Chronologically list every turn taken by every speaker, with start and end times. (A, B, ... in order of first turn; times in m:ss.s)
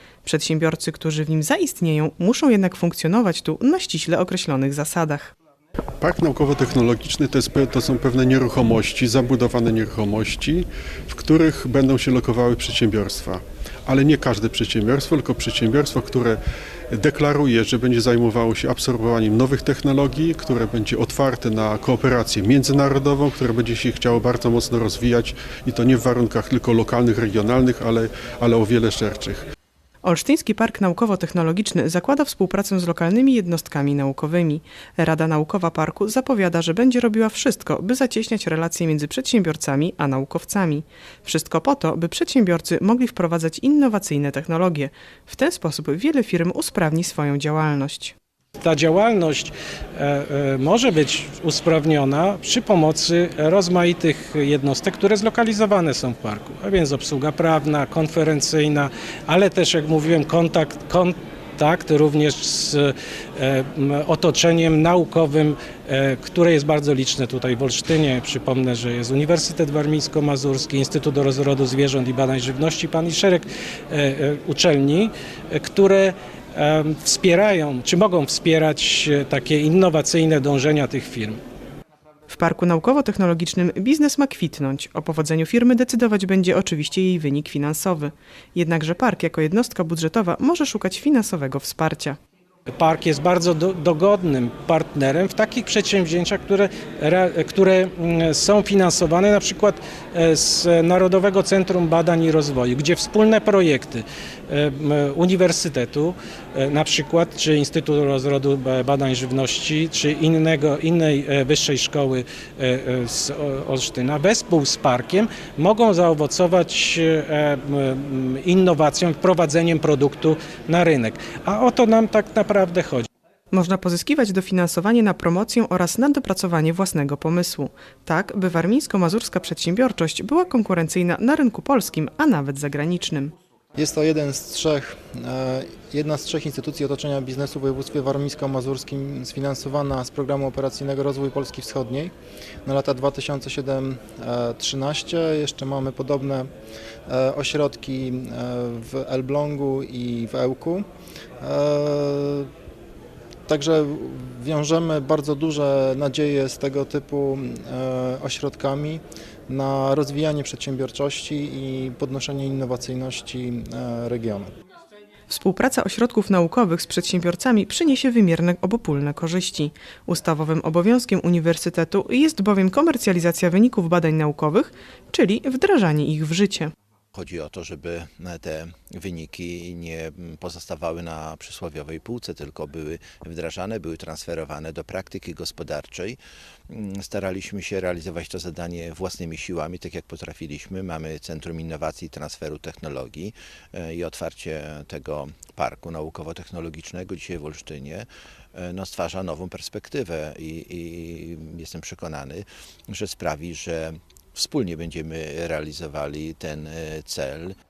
0:00.2-0:05.3 A
0:06.0-0:16.4 B
0:16.9-0:29.4 B
0:30.0-0:48.2 A
0:48.6-1:21.4 C
1:22.3-1:32.2 A
1:32.8-2:03.1 C
2:03.5-2:13.3 A
2:13.8-2:22.1 D
2:22.7-2:26.5 D
2:27.1-2:30.8 D
2:31.4-2:32.5 D
2:33.5-2:44.5 D
2:45.3-2:56.7 A
2:57.2-3:06.2 E
3:06.7-3:18.1 E
3:18.6-3:27.5 E